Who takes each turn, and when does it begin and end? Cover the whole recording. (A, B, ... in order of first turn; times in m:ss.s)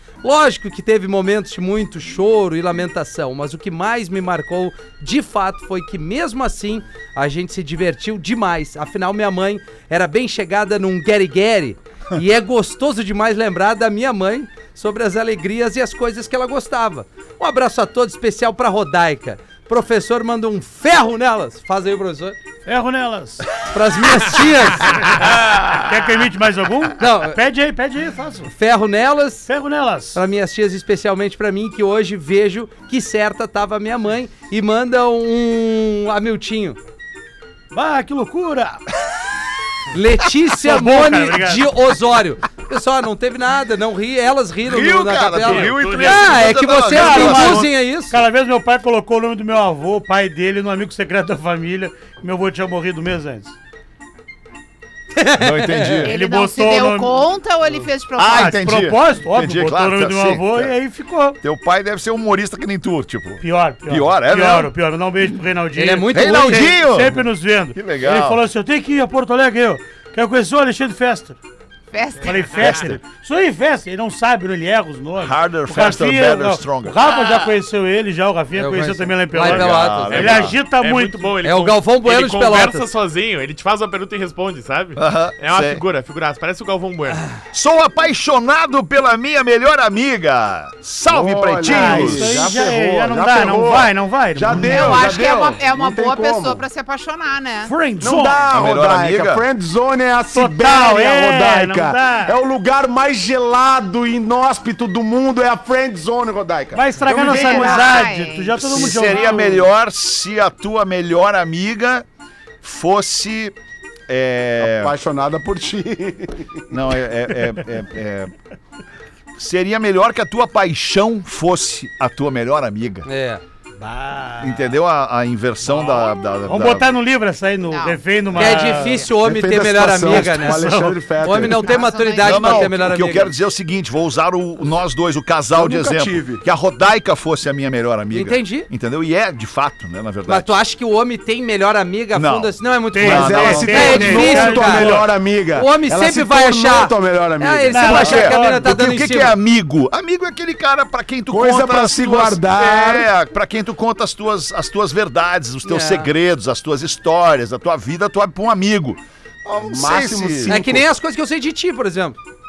0:00.2-0:22.4 A
0:22.6-0:23.4 B
0:23.7-0:25.1 A
0:24.9-0:28.5 B
0:27.0-0:27.4 A
0:28.5-0:29.5 A
0:29.5-0:30.2 B
0:30.1-0:36.8 A
0:37.7-0:38.8 B
0:39.9-0:48.2 A
0:40.6-0:41.6 B
0:44.6-0:47.7 C
0:45.4-0:46.4 D
0:45.8-0:46.1 B
0:46.8-0:53.5 B
0:55.2-0:56.1 A
0:55.4-0:56.1 C
0:56.0-0:57.2 B
0:56.0-0:58.6 E
0:58.2-1:00.7 C
0:58.3-1:01.4 B
1:01.4-1:04.7 C
1:03.4-1:11.4 B
1:05.8-1:06.7 A
1:06.1-1:08.4 C
1:11.9-1:12.8 E
1:12.2-1:21.4 B
1:12.4-1:12.8 D
1:15.2-1:17.3 C
1:18.5-1:20.3 A
1:19.4-1:20.6 C
1:20.0-1:27.2 D
1:21.4-1:22.8 A
1:25.0-1:25.8 C
1:27.5-1:32.5 C
1:31.0-1:36.6 F
1:31.6-1:35.1 B
1:34.6-1:37.8 E
1:37.6-1:38.4 B
1:38.0-1:46.8 F
1:38.5-1:39.4 C
1:40.3-1:42.3 B
1:46.7-1:49.7 B
1:47.0-1:47.7 A
1:47.2-1:48.8 E
1:47.3-1:47.7 F
1:48.6-1:52.0 C
1:52.6-1:53.5 C
1:54.1-1:54.9 C
1:54.6-1:57.3 F
1:56.7-1:58.3 C
1:59.4-2:03.0 C
2:03.0-2:03.4 A
2:03.8-2:04.8 B
2:04.4-2:06.9 C
2:05.6-2:09.1 B
2:07.7-2:08.0 E
2:08.4-2:13.3 A
2:09.2-2:11.8 F
2:10.0-2:11.0 B
2:11.4-2:12.7 E
2:12.2-2:20.6 C
2:15.5-2:16.4 F
2:18.1-2:18.7 A
2:20.3-2:25.0 A
2:22.1-2:24.2 C
2:22.9-2:25.1 B
2:23.0-2:28.1 F
2:25.5-2:29.4 A
2:27.7-2:28.7 B
2:27.8-2:40.6 C
2:31.3-2:33.1 F
2:35.6-2:36.1 A
2:39.6-2:40.8 F
2:40.5-2:42.2 A